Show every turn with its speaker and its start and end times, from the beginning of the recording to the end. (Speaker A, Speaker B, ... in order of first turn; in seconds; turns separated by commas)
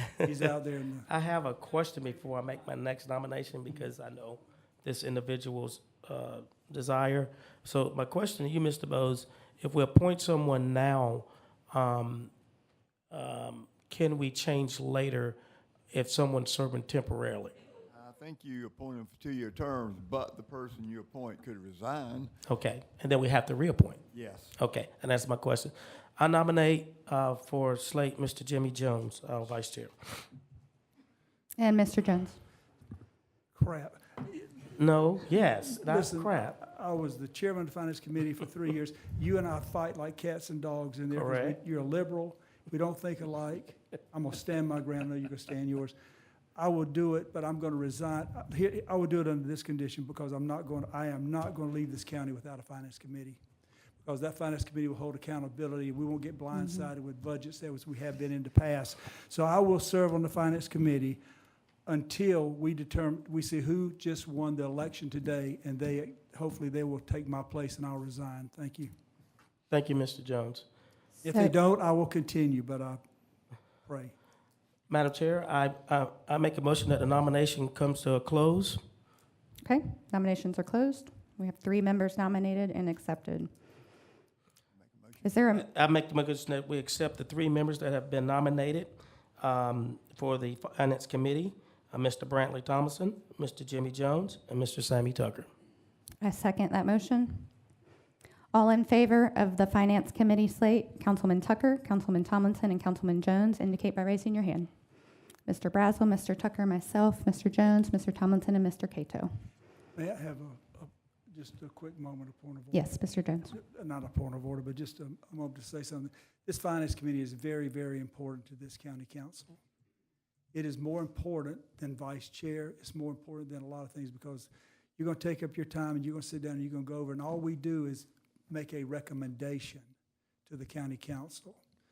Speaker A: 0.1-1.1, Speaker B: 1.1-12.3, Speaker B: 13.1-15.4, Speaker B: 15.9-17.6, Speaker C: 17.9-22.3, Speaker B: 22.4-24.0, Speaker C: 24.1-24.6, Speaker B: 24.6-30.3, Speaker D: 31.6-32.4, Speaker A: 33.5-34.5, Speaker B: 34.8-36.6, Speaker A: 35.8-45.9, Speaker B: 41.1-41.6, Speaker A: 46.5-53.4, Speaker A: 54.0-61.2, Speaker A: 61.9-68.9, Speaker B: 69.7-70.6, Speaker A: 71.2-73.0, Speaker D: 71.3-71.5, Speaker A: 73.8-74.1, Speaker B: 74.9-78.8, Speaker D: 79.6-83.5, Speaker C: 84.7-85.6, Speaker B: 85.5-95.5, Speaker D: 96.2-97.5, Speaker D: 98.5-104.7, Speaker D: 105.4-109.3, Speaker A: 109.9-119.5, Speaker D: 112.7-113.5, Speaker A: 120.5-129.9, Speaker A: 130.4-131.6